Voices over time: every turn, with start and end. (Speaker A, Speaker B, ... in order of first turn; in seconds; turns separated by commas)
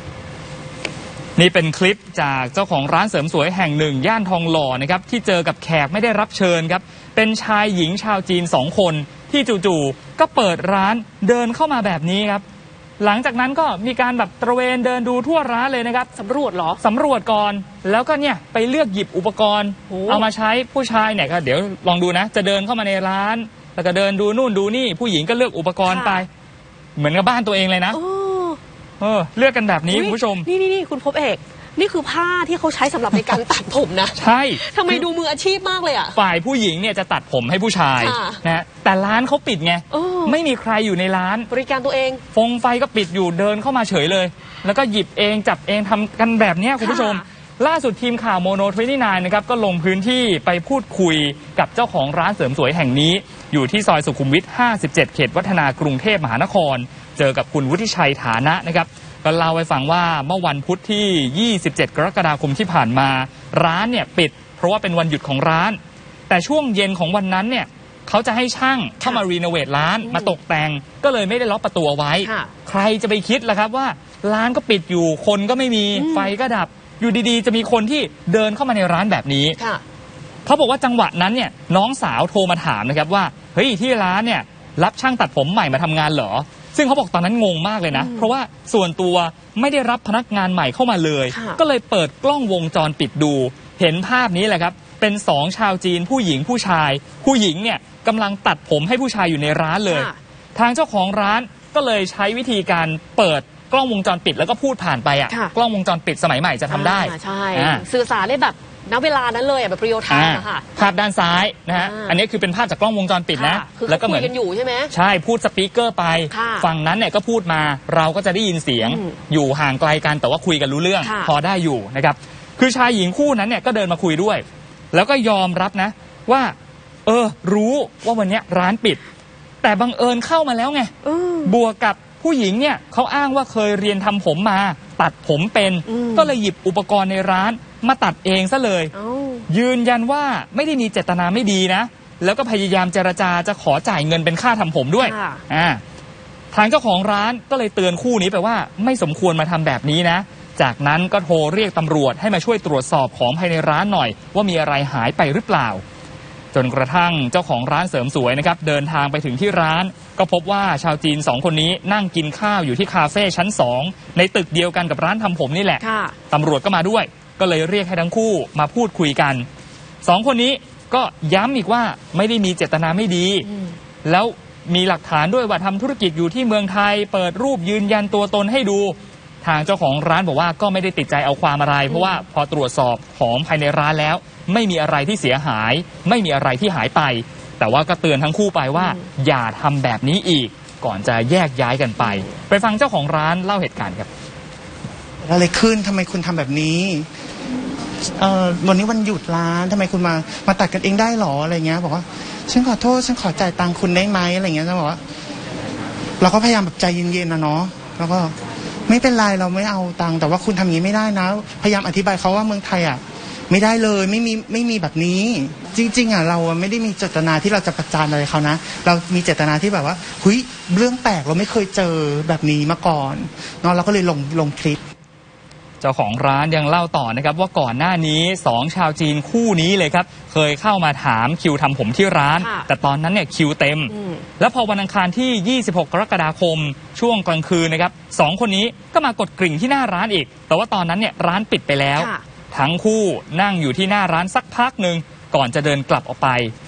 Speaker A: 1.4-12.4, Speaker A: 13.0-16.1, Speaker B: 16.2-16.8, Speaker A: 16.8-26.3, Speaker B: 19.9-20.2, Speaker B: 25.9-26.2, Speaker A: 27.0-28.0, Speaker B: 27.9-28.6, Speaker A: 29.0-30.5, Speaker B: 29.9-36.2, Speaker A: 34.1-35.0, Speaker A: 36.1-41.5, Speaker B: 38.0-38.4, Speaker B: 39.9-40.4, Speaker B: 41.5-42.2, Speaker A: 42.3-79.6, Speaker B: 46.8-47.2, Speaker B: 70.0-70.4, Speaker B: 72.2-72.5, Speaker B: 76.0-76.3, Speaker A: 80.5-107.8, Speaker B: 87.9-88.3, Speaker B: 91.3-91.6, Speaker B: 99.9-100.2, Speaker B: 106.7-110.7, Speaker A: 110.1-114.3, Speaker B: 111.7-112.2, Speaker B: 113.3-114.9, Speaker A: 114.9-126.5, Speaker B: 116.3-116.7, Speaker B: 118.8-119.2, Speaker B: 121.0-121.3, Speaker A: 127.1-129.0, Speaker A: 129.6-130.9, Speaker B: 131.0-131.5, Speaker A: 131.4-138.9, Speaker B: 135.9-136.4, Speaker B: 138.9-139.5, Speaker A: 139.5-145.8, Speaker B: 145.0-145.4, Speaker A: 146.5-155.8, Speaker A: 156.5-169.5, Speaker B: 165.8-166.2, Speaker A: 170.0-173.5, Speaker B: 173.4-173.8, Speaker A: 174.1-194.1, Speaker B: 181.9-182.2, Speaker B: 188.8-189.1, Speaker B: 192.0-192.3, Speaker C: 195.2-197.1, Speaker C: 198.2-205.0, Speaker C: 206.2-208.3, Speaker C: 208.9-224.8, Speaker A: 225.8-246.5, Speaker B: 232.4-232.7, Speaker B: 233.9-234.3, Speaker B: 242.0-242.2